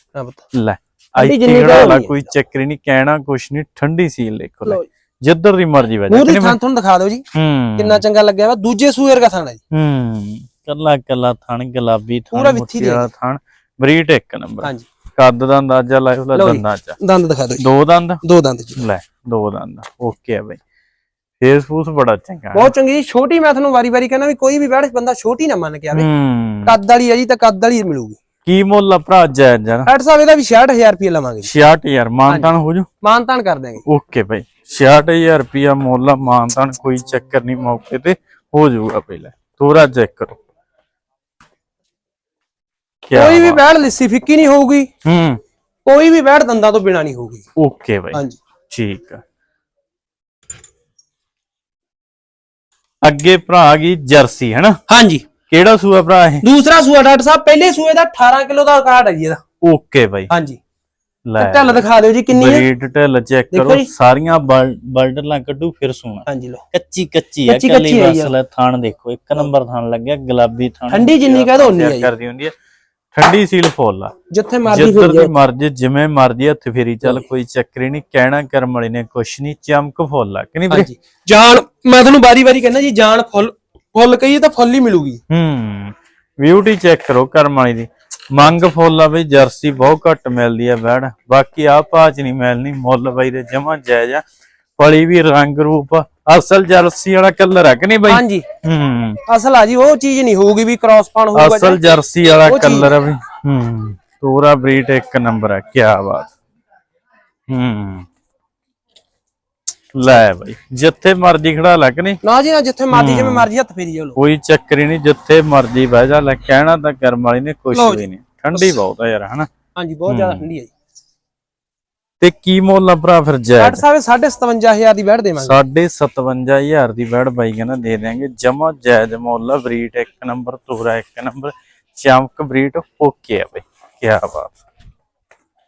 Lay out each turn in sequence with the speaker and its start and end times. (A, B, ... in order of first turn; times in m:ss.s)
0:00.2-0:00.4 A
0:00.5-0:06.6 B
0:01.2-0:02.2 A
0:06.1-0:07.2 A
0:07.3-0:08.0 B
0:07.8-0:09.6 A
0:09.7-0:17.0 B
0:12.3-0:13.1 A
0:16.3-0:17.7 A
0:17.6-0:18.2 B
0:18.2-0:18.8 A
0:18.8-0:20.6 B
0:21.4-0:22.7 B
0:22.5-0:26.1 A
0:25.9-0:26.8 B
0:26.6-0:28.2 A
0:28.4-0:29.9 B
0:29.9-0:31.5 A
0:31.4-0:32.9 B
0:33.0-0:33.8 A
0:33.8-0:40.4 B
0:43.1-0:43.6 B
0:43.1-0:44.9 A
0:45.0-0:45.4 B
0:45.8-0:47.4 A
0:47.6-0:49.2 B
0:48.1-0:48.4 A
0:53.0-0:54.8 B
0:54.9-0:55.2 A
0:55.5-0:56.5 B
0:56.4-0:59.4 A
0:59.6-1:00.3 B
1:00.3-1:00.6 A
1:01.3-1:12.5 B
1:01.4-1:02.7 A
1:03.5-1:03.9 A
1:06.3-1:06.6 A
1:07.5-1:08.3 A
1:10.9-1:12.1 A
1:13.1-1:14.1 B
1:14.3-1:15.3 A
1:14.7-1:20.9 B
1:20.7-1:25.2 A
1:25.3-1:34.2 B
1:34.8-1:39.2 B
1:38.1-1:38.5 A
1:39.3-1:43.0 A
1:41.4-1:46.3 B
1:47.5-1:48.1 B
1:50.0-1:52.2 B
1:52.2-1:54.2 A
1:52.9-1:53.5 B
1:54.2-1:59.5 B
1:57.7-1:58.8 A
1:59.8-2:00.7 A
2:00.1-2:00.5 B
2:02.2-2:03.8 B
2:03.6-2:05.6 A
2:05.4-2:14.6 B